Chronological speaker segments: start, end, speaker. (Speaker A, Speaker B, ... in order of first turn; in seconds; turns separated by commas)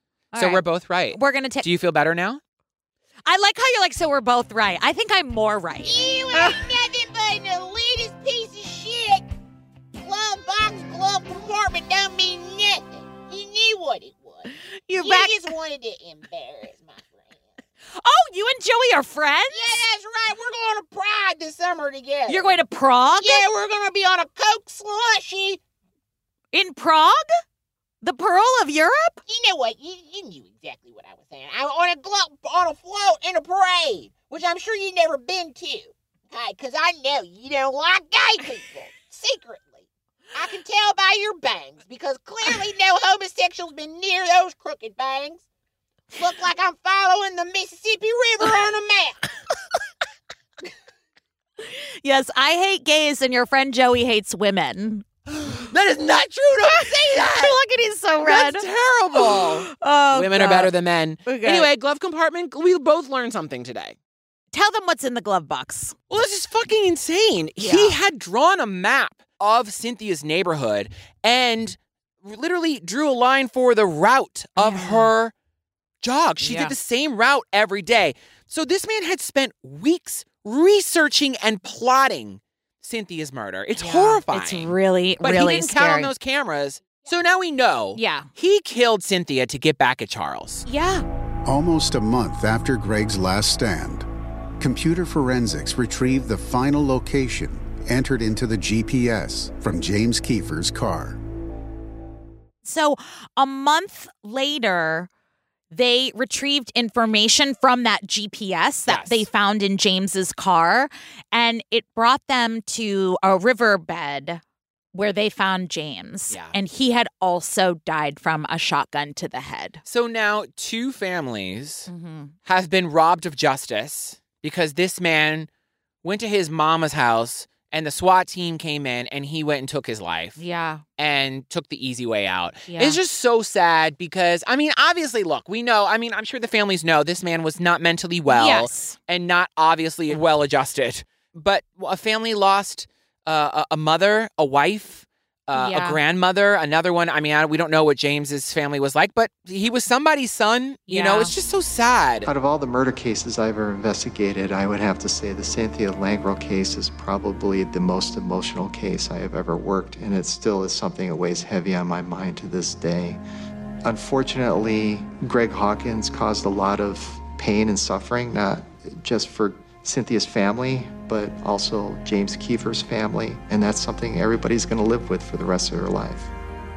Speaker A: 0.3-1.6, Speaker B: 0.4-2.4, Speaker A: 3.3-6.7, Speaker C: 5.8-9.3, Speaker C: 9.9-17.4, Speaker A: 14.9-15.5, Speaker A: 18.0-19.8, Speaker C: 19.5-22.6, Speaker A: 22.3-23.5, Speaker C: 23.2-25.6, Speaker A: 26.5-27.2, Speaker A: 28.0-29.2, Speaker C: 29.3-45.4, Speaker C: 46.2-49.2, Speaker A: 51.7-55.1, Speaker B: 55.3-57.5, Speaker A: 56.7-60.7, Speaker B: 58.2-64.0, Speaker A: 61.3-61.7, Speaker A: 64.5-66.0, Speaker B: 66.1-75.3, Speaker A: 67.6-68.0, Speaker A: 74.6-75.1, Speaker B: 76.0-90.7, Speaker A: 76.4-76.7, Speaker A: 83.8-86.1, Speaker A: 88.0-88.3, Speaker A: 90.7-91.0, Speaker D: 91.5-94.1, Speaker D: 94.6-101.2, Speaker A: 102.6-105.1, Speaker A: 105.7-114.4, Speaker B: 108.9-109.3, Speaker A: 114.9-119.8, Speaker B: 116.3-116.6, Speaker B: 119.8-121.9, Speaker A: 121.9-122.3, Speaker B: 122.5-125.5, Speaker B: 126.0-130.4, Speaker A: 130.4-130.8, Speaker B: 131.0-152.3, Speaker A: 132.7-133.0, Speaker A: 138.3-139.0, Speaker A: 145.5-146.0, Speaker A: 150.9-151.3, Speaker E: 152.3-163.2, Speaker E: 163.8-176.3